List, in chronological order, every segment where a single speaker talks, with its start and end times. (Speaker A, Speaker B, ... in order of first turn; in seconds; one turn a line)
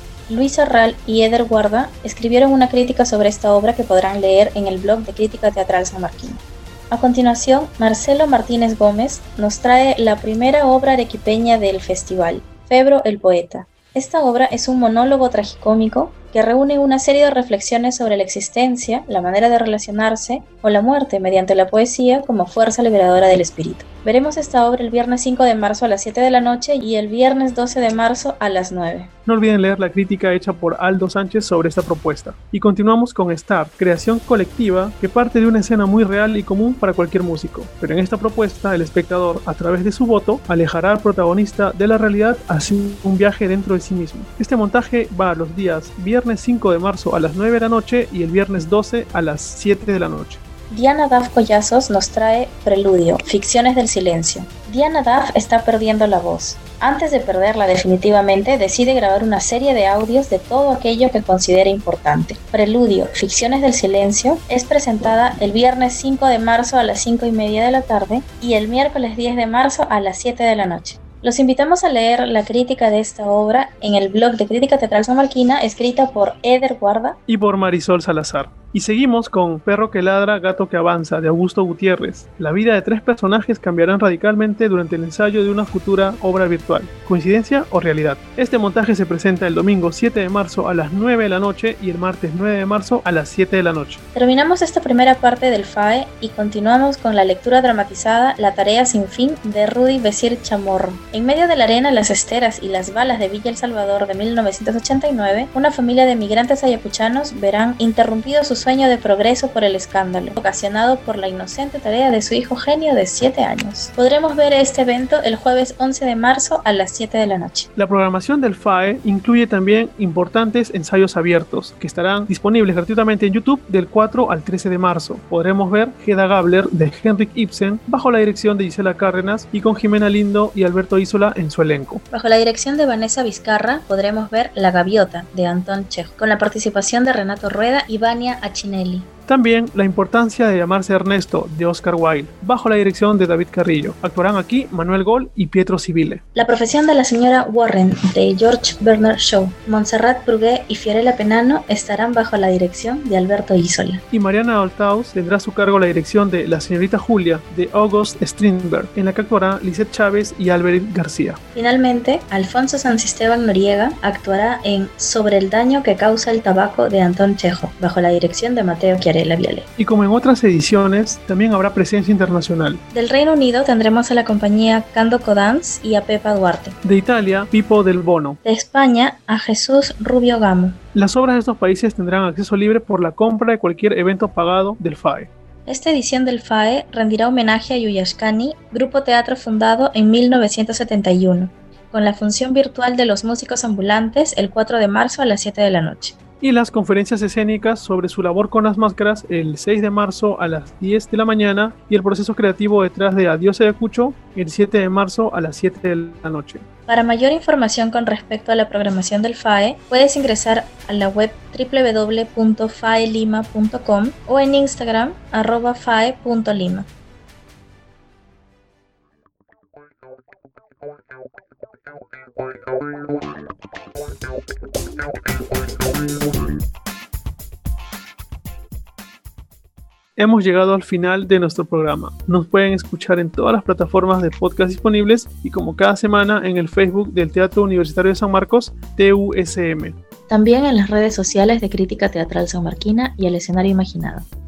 Speaker A: 0.3-29.1
Speaker B: 29.2-50.4
Speaker A: 50.7-77.2
Speaker B: 77.3-94.0
Speaker A: 94.1-117.7
Speaker B: 117.8-132.0
Speaker A: 132.1-139.1
Speaker B: 139.3-146.2
Speaker A: 146.3-154.0
Speaker B: 154.1-161.4
Speaker A: 161.5-169.7
Speaker B: 169.8-172.8
Speaker A: 172.9-176.8
Speaker B: 176.8-178.4
Speaker A: 178.4-180.8
Speaker B: 180.9-185.3
Speaker A: 185.7-196.2
Speaker B: 196.4-206.6
Speaker A: 206.9-216.9
Speaker B: 230.2-239.9
Speaker A: 240.3-244.2